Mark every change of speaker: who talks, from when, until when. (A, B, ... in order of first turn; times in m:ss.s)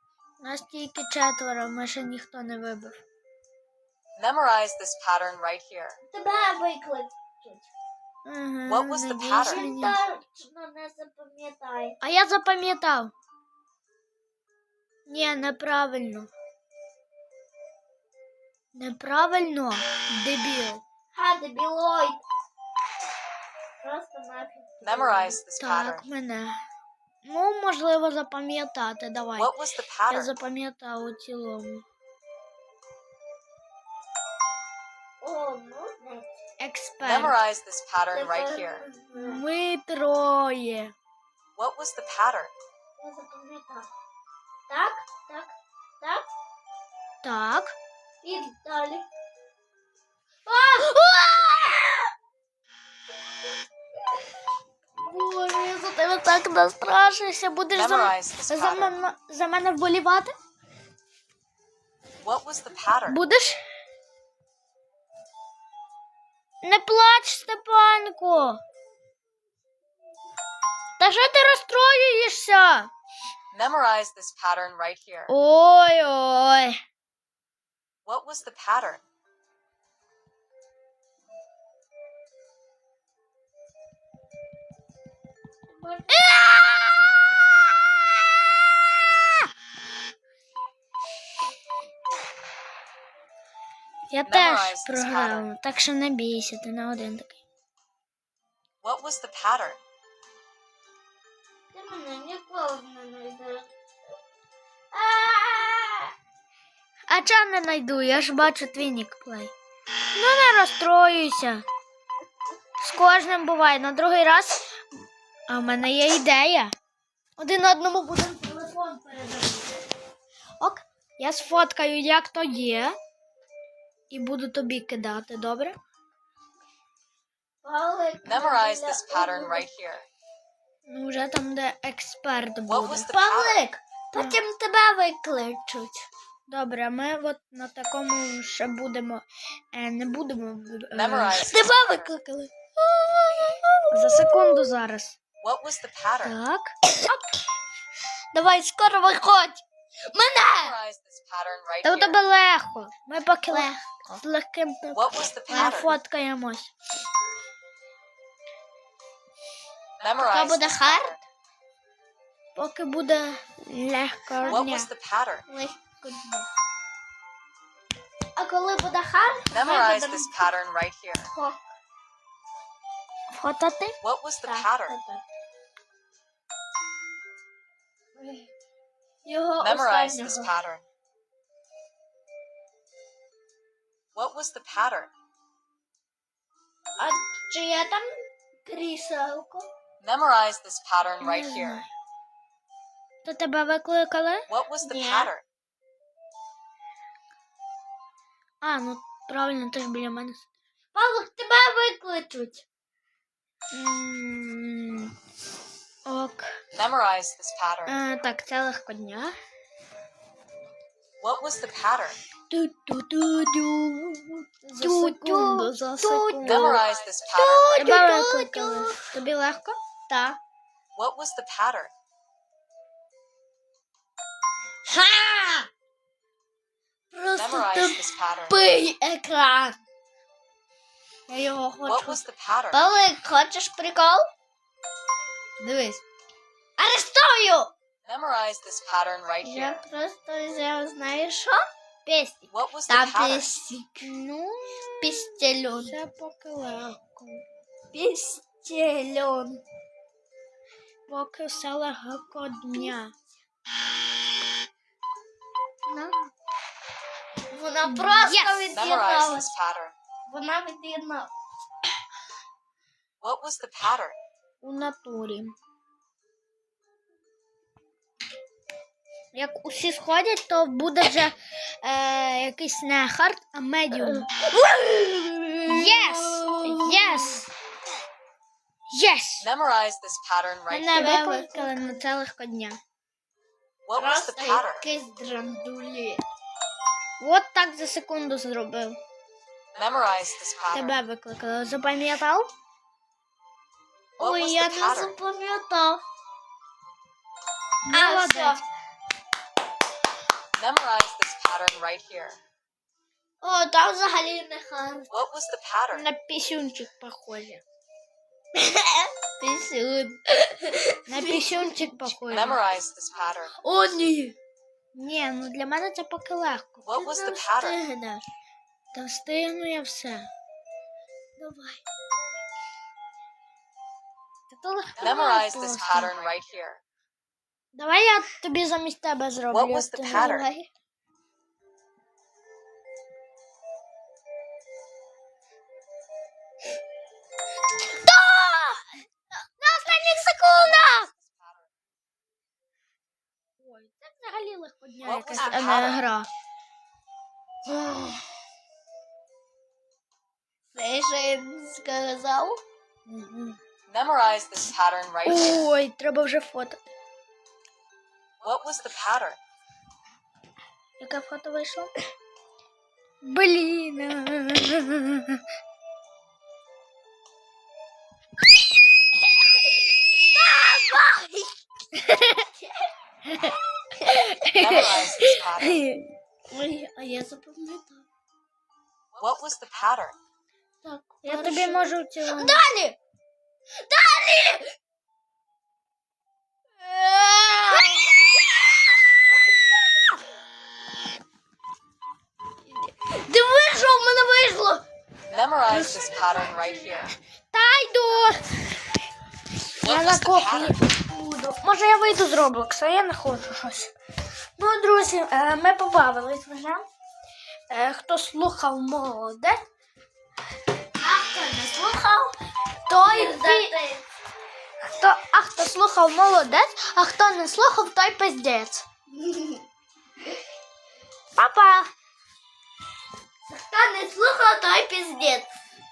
0:00.4-0:03.0 A
0:04.2-0:06.0 B
0:06.1-0:07.7 C
0:08.2-0:10.0 A
0:08.7-0:09.7 B
0:09.4-0:12.0 C
0:12.0-0:13.1 A
0:15.1-0:16.3 A
0:18.8-0:20.8 A
0:21.1-0:22.2 C
0:23.8-0:25.4 C
0:24.8-0:26.0 B
0:25.6-0:26.6 A
0:27.2-0:29.5 A
0:29.4-0:30.3 B
0:30.1-0:31.8 A
0:35.2-0:36.3 C
0:36.6-0:37.4 A
0:37.0-0:38.8 B
0:38.1-0:39.4 C
0:39.2-0:40.9 A
0:41.6-0:42.5 B
0:43.0-0:43.9 C
0:44.7-0:46.3 C
0:47.2-0:47.7 A
0:48.2-0:49.1 C
0:50.5-0:51.0 C
0:50.7-0:51.6 A
0:51.5-0:52.0 C
0:55.0-1:00.3 A
0:57.7-0:59.0 B
1:02.2-1:03.2 B
1:03.1-1:03.6 A
1:06.6-1:08.6 A
1:11.0-1:12.9 A
1:13.5-1:15.3 B
1:15.3-1:16.8 A
1:18.1-1:19.0 B
1:25.8-1:26.5 C
1:26.3-1:26.8 A
1:34.1-1:37.4 A
1:34.2-1:35.5 B
1:38.8-1:39.8 B
1:41.7-1:43.7 C
1:44.9-1:46.1 C
1:47.1-1:49.5 A
1:50.1-1:51.6 A
1:52.8-1:54.7 A
1:55.5-1:56.7 A
1:57.4-1:59.8 A
2:00.6-2:03.0 A
2:04.1-2:05.8 A
2:07.6-2:09.7 C
2:08.2-2:10.1 B
2:10.8-2:13.1 A
2:12.7-2:13.6 B
2:13.1-2:16.1 C
2:16.5-2:21.5 A
2:20.9-2:21.9 B
2:21.3-2:24.6 C
2:23.9-2:25.2 A
2:25.4-2:26.4 B
2:26.2-2:26.8 A
2:26.9-2:27.2 C
2:28.3-2:30.8 C
2:30.5-2:32.2 B
2:31.8-2:36.7 A
2:33.5-2:34.0 C
2:34.9-2:35.9 B
2:35.5-2:35.9 C
2:40.0-2:41.2 B
2:40.2-2:41.2 C
2:42.6-2:44.9 A
2:44.4-2:44.8 C
2:44.5-2:45.4 B
2:45.5-2:46.5 C
2:48.4-2:50.5 C
2:49.5-2:51.3 B
2:51.3-2:51.6 C
2:53.3-2:54.0 A
2:54.0-2:55.0 B
2:54.4-2:55.2 C
2:58.2-2:58.5 C
2:59.2-3:00.5 C
2:59.6-3:00.8 B
3:04.2-3:05.1 B
3:07.0-3:09.7 C
3:10.0-3:11.8 B
3:11.2-3:11.9 A
3:13.2-3:14.5 A
3:14.5-3:15.4 B
3:14.8-3:15.3 C
3:18.6-3:20.5 A
3:21.0-3:22.6 C
3:23.7-3:25.1 A
3:26.1-3:26.5 A
3:26.7-3:28.0 B
3:27.9-3:29.3 A
3:31.2-3:32.2 B
3:32.5-3:33.4 A
3:33.3-3:39.0 C
3:34.6-3:36.8 A
3:36.4-3:37.8 B
3:37.8-3:39.8 A
3:40.1-3:40.4 C
3:41.0-3:41.9 B
3:44.9-3:45.7 C
3:47.1-3:49.8 C
3:47.4-3:48.6 B
3:51.3-3:52.2 C
3:51.8-3:52.8 B
3:52.7-3:54.3 C
3:55.6-3:56.0 C
3:56.8-3:57.7 C
3:58.0-3:59.8 B
3:59.4-4:04.1 C
4:02.5-4:03.5 B
4:04.0-4:04.7 A
4:05.0-4:06.0 C
4:05.9-4:07.4 A
4:07.9-4:09.6 C
4:11.1-4:13.1 A
4:15.9-4:16.3 C
4:17.5-4:19.5 C
4:17.8-4:18.8 A
4:18.7-4:19.9 B
4:20.3-4:21.3 C
4:23.2-4:24.2 B
4:24.6-4:25.5 A
4:29.3-4:34.3 A
4:34.0-4:37.4 C
4:35.7-4:37.5 A
4:38.9-4:39.5 A
4:39.4-4:41.2 B
4:40.7-4:42.8 A
4:40.9-4:42.0 C
4:43.9-4:44.9 B
4:43.9-4:46.2 C
4:47.2-4:49.0 A
4:49.8-4:51.0 B
4:50.7-4:52.5 A
4:54.2-4:56.0 C
4:54.2-4:55.1 B
4:57.9-4:58.6 A
4:57.9-4:58.6 C
5:00.6-5:02.4 B
5:03.4-5:05.1 C
5:05.1-5:06.1 B
5:05.9-5:07.6 A
5:08.6-5:12.1 C
5:11.1-5:12.6 A
5:12.3-5:13.5 B
5:13.6-5:14.4 C
5:14.9-5:16.9 A
5:16.8-5:17.8 B
5:16.9-5:18.2 C
5:18.9-5:20.3 A
5:21.4-5:21.8 C
5:24.5-5:26.2 A
5:25.0-5:26.8 B
5:27.7-5:30.4 A
5:29.5-5:30.5 B
5:30.1-5:30.7 C
5:37.8-5:38.8 C
5:39.6-5:41.1 A
5:40.6-5:41.7 B
5:43.6-5:46.3 A
5:45.0-5:46.0 B
5:45.2-5:46.0 C
5:47.7-5:48.2 C
5:50.7-5:52.6 C
5:53.1-5:53.6 A
5:53.9-5:55.7 B
5:55.2-5:56.9 A
5:58.4-5:59.4 B
6:01.0-6:01.9 A
6:03.2-6:05.4 A
6:10.2-6:11.6 C
6:12.0-6:12.4 A
6:12.4-6:12.9 C
6:13.3-6:16.1 A
6:14.6-6:15.8 B
6:14.8-6:15.2 C
6:16.5-6:18.1 C
6:19.2-6:20.2 B
6:20.8-6:23.0 C
6:21.2-6:22.6 A
6:23.8-6:24.7 C
6:26.8-6:28.3 C
6:33.2-6:34.8 A
6:35.3-6:37.1 B
6:35.7-6:36.0 A
6:37.5-6:38.6 A
6:39.8-6:43.9 A
6:39.8-6:40.8 B
6:44.6-6:46.9 A
6:47.7-6:49.6 A
6:51.0-6:52.4 C
6:52.9-6:53.7 A
6:52.9-6:54.0 C
6:54.9-6:58.8 A
6:59.1-6:59.6 C
7:01.4-7:01.9 A
7:03.5-7:05.5 C